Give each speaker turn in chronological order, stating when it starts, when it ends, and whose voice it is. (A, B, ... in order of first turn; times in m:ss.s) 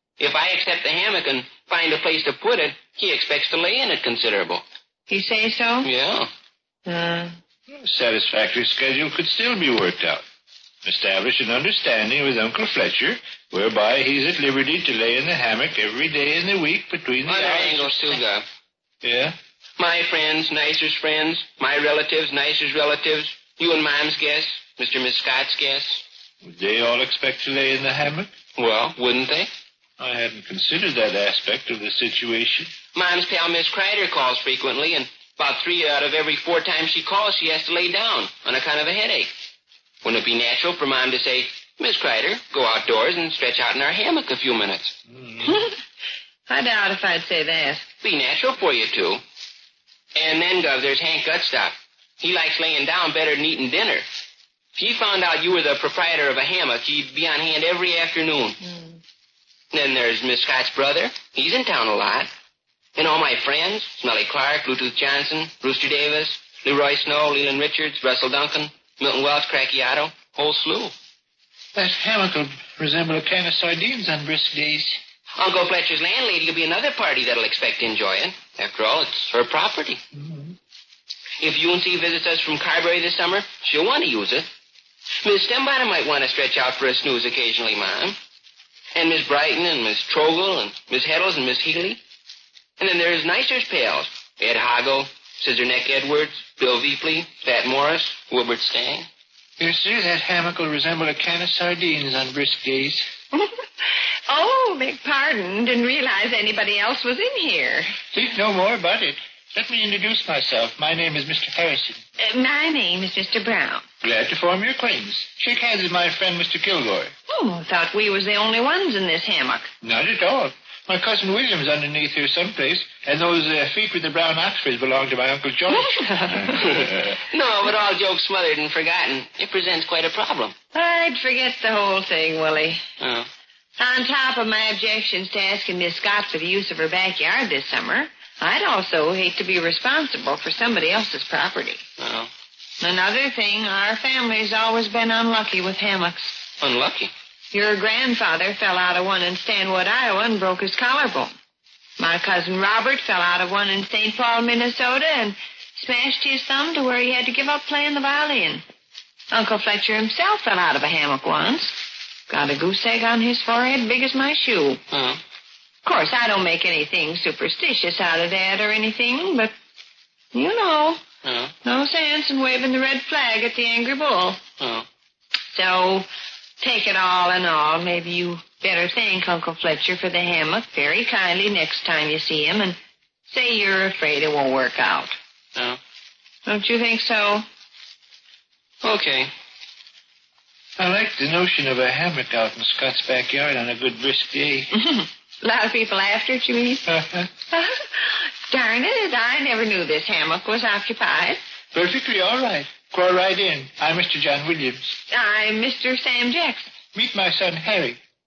0:00.2-0:04.6 A
0:05.1-0:05.9 B
0:05.8-0:06.3 A
0:06.9-0:07.4 B
0:07.8-0:10.2 C
0:10.8-0:18.2 C
0:17.3-0:18.4 A
0:19.0-0:19.3 C
0:19.8-0:26.0 A
0:26.4-0:28.3 C
0:28.6-0:29.5 A
0:30.0-0:32.7 C
0:32.9-0:39.3 A
0:40.0-0:44.9 A
0:45.1-0:45.6 C
0:45.4-0:45.8 B
0:46.5-0:47.9 B
0:48.0-0:49.2 A
0:50.1-0:54.0 A
0:54.8-0:58.6 A
0:58.6-0:59.0 B
0:59.7-1:02.3 A
1:03.0-1:10.9 A
1:11.8-1:15.0 C
1:15.4-1:20.0 A
1:20.1-1:20.6 C
1:21.4-1:24.5 A
1:25.2-1:28.2 A
1:29.0-1:32.0 A
1:32.8-1:39.1 A
1:39.6-1:43.1 C
1:43.3-1:43.6 B
1:44.3-1:48.0 B
1:48.1-1:52.0 C
1:52.2-1:53.8 B
1:54.0-1:57.1 C
1:57.3-1:59.7 B
1:59.8-2:07.2 C
2:05.9-2:06.5 B
2:06.6-2:10.5 A
2:10.7-2:12.8 B
2:13.0-2:13.3 A
2:13.8-2:21.8 B
2:22.0-2:22.3 A
2:22.8-2:26.4 B
2:26.6-2:27.1 A
2:27.5-2:31.3 B
2:32.0-2:38.6 B
2:39.3-2:44.8 B
2:44.9-2:45.2 A
2:45.8-2:49.5 B
2:50.3-2:51.0 B
2:51.2-2:51.5 A
2:51.6-2:54.4 B
2:54.6-2:54.9 A
2:55.5-2:56.1 B
2:56.6-3:02.8 B
3:03.3-3:05.1 B
3:06.5-3:07.4 B
3:08.8-3:09.3 A
3:10.8-3:14.7 C
3:14.7-3:16.9 B
3:16.9-3:17.3 C
3:17.4-3:21.4 B
3:21.7-3:24.9 C
3:25.1-3:26.7 B
3:26.9-3:28.0 C